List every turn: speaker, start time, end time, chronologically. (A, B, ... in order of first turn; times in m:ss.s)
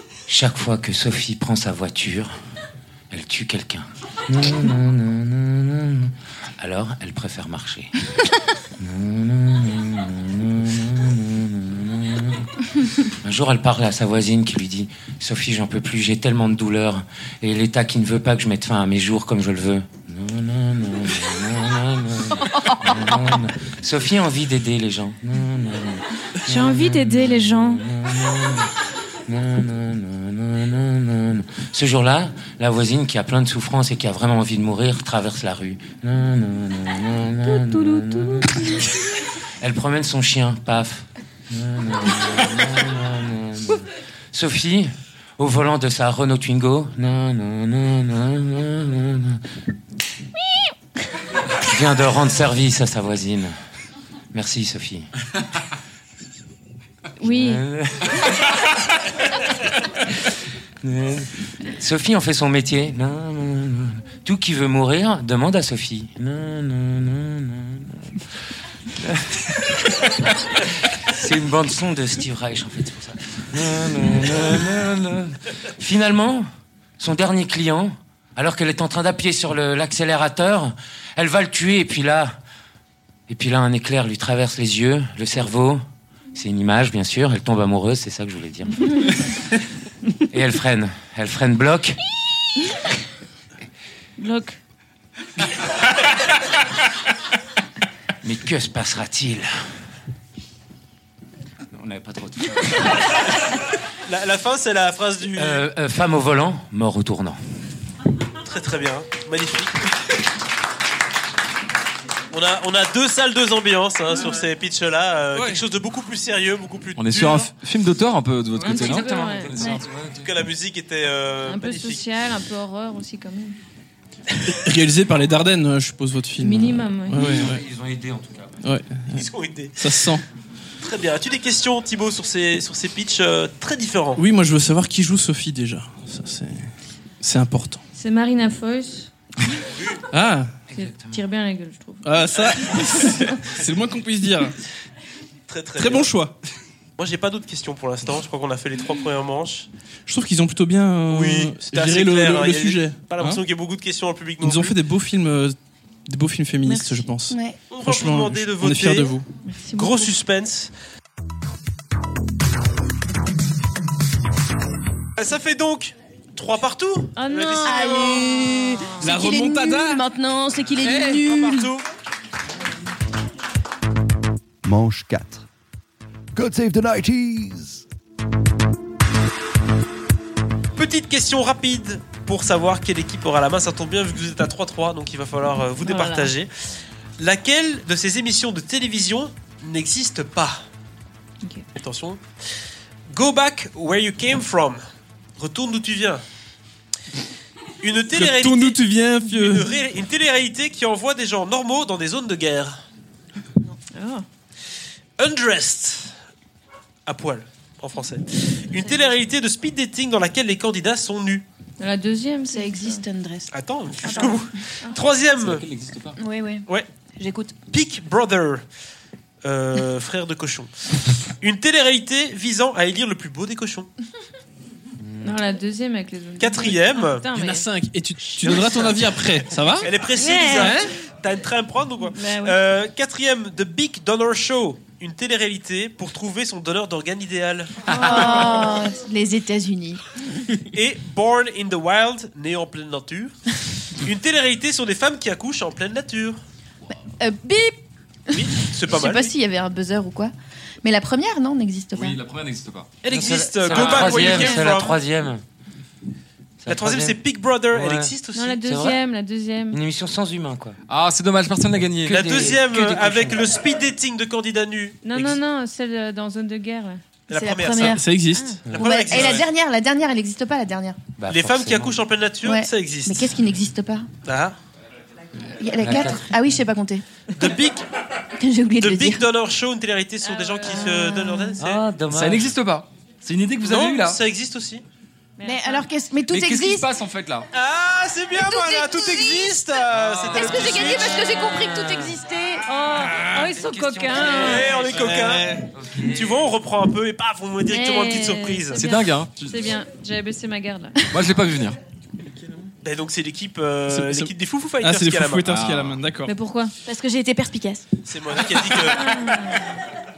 0:00.3-0:02.4 A
0:03.1-0:08.0 A
0:08.8-0:28.7 A
0:26.4-0:27.8 B
0:29.3-0:39.0 A
0:37.7-0:38.5 C
0:39.6-0:49.4 A
0:51.6-0:53.6 A
0:54.3-0:55.1 A
0:57.2-0:57.6 B
0:57.2-0:58.6 A
1:00.8-1:08.2 A
1:08.9-1:16.5 A
1:17.0-1:22.4 A
1:23.3-1:25.8 A
1:26.3-1:29.5 A
1:30.2-1:32.0 A
1:34.2-1:34.6 B
1:38.2-1:39.7 A
1:41.7-1:43.3 A
1:44.1-1:45.6 D
1:45.4-1:47.4 A
1:48.4-1:49.9 D
1:52.3-1:57.5 D
1:55.4-1:55.6 E
1:57.0-2:00.1 F
1:58.6-2:00.3 A
1:58.6-1:59.8 B
2:00.2-2:02.0 D
2:01.4-2:03.6 B
2:04.6-2:07.6 E
2:06.4-2:07.4 B
2:07.1-2:08.6 A
2:08.6-2:10.2 E
2:09.1-2:10.2 D
2:10.8-2:14.2 D
2:14.2-2:16.7 E
2:17.2-2:17.8 E
2:18.0-2:19.1 B
2:19.7-2:20.1 D
2:20.1-2:20.5 E
2:20.7-2:21.2 A
2:20.7-2:22.1 B
2:22.0-2:24.6 E
2:25.5-2:26.1 D
2:25.8-2:26.4 E
2:27.0-2:29.7 D
2:30.1-2:33.4 E
2:31.1-2:34.8 D
2:34.4-2:35.6 E
2:36.1-2:39.3 E
2:36.7-2:37.0 B
2:37.3-2:37.7 C
2:37.7-2:39.2 D
2:39.4-2:40.1 B
2:39.8-2:40.7 D
2:45.2-2:48.5 D
2:47.2-2:49.1 B
2:47.6-2:51.7 C
2:49.0-2:50.0 E
2:50.8-2:51.8 D
2:54.6-2:55.5 G
2:56.3-2:57.8 G
3:00.8-3:06.5 D
3:05.8-3:06.3 B
3:07.2-3:10.7 D
3:11.8-3:12.2 D
3:13.1-3:14.8 D
3:15.4-3:16.2 D
3:17.8-3:22.8 D
3:18.2-3:19.7 E
3:23.9-3:24.2 B
3:25.2-3:26.2 D
3:27.1-3:31.4 D
3:31.8-3:33.0 B
3:32.5-3:33.5 C
3:33.5-3:35.7 D
3:34.0-3:34.4 C
3:35.4-3:36.2 F
3:36.2-3:37.6 C
3:37.7-3:38.6 D
3:39.4-3:40.7 D
3:41.4-3:43.9 D
3:45.2-3:47.7 B
3:46.4-3:47.3 D
3:47.4-3:49.9 E
3:48.4-3:49.2 D
3:49.8-3:58.4 D
3:50.2-3:50.8 B
3:50.5-3:50.9 E
3:52.1-3:52.6 B
3:57.9-3:58.8 B
3:57.9-4:00.1 C
4:00.7-4:03.4 D
4:03.9-4:06.4 D
4:07.2-4:12.2 C
4:08.3-4:09.3 D
4:11.9-4:12.9 F
4:13.0-4:15.0 D
4:13.1-4:15.4 A
4:14.2-4:14.6 B
4:16.6-4:17.2 A
4:16.7-4:18.6 D
4:17.7-4:19.0 A
4:18.3-4:19.8 B
4:19.7-4:20.8 A
4:20.9-4:22.4 F
4:22.1-4:23.6 A
4:22.1-4:25.4 D
4:25.0-4:27.0 B
4:27.3-4:28.0 D
4:27.3-4:28.0 C
4:27.8-4:28.6 E
4:28.3-4:28.6 B
4:28.7-4:29.5 D
4:28.8-4:31.0 C
4:31.2-4:32.0 A
4:31.3-4:33.3 D
4:32.4-4:34.1 C
4:34.2-4:34.6 D
4:35.6-4:37.0 C
4:35.8-4:36.4 A
4:37.4-4:37.9 D
4:38.4-4:39.2 C
4:38.8-4:41.8 D
4:40.2-4:41.5 B
4:41.6-4:42.5 A
4:42.1-4:44.2 F
4:43.6-4:44.8 D
4:45.4-4:45.9 B
4:45.4-4:46.9 C
4:46.3-4:47.5 F
4:47.5-4:51.4 D
4:48.4-4:52.6 C
4:50.0-4:50.7 F
4:51.4-4:52.2 A
4:52.7-4:54.8 B
4:53.1-4:55.2 A
4:54.2-4:58.9 D
4:55.0-4:55.6 E
4:55.7-4:56.5 A
4:57.7-5:01.1 B
4:58.8-4:59.7 F
5:01.1-5:01.8 F
5:02.8-5:05.5 D
5:03.9-5:06.3 E
5:05.5-5:06.0 F
5:06.3-5:06.7 B
5:06.8-5:07.9 C
5:08.1-5:09.4 D
5:08.9-5:09.8 B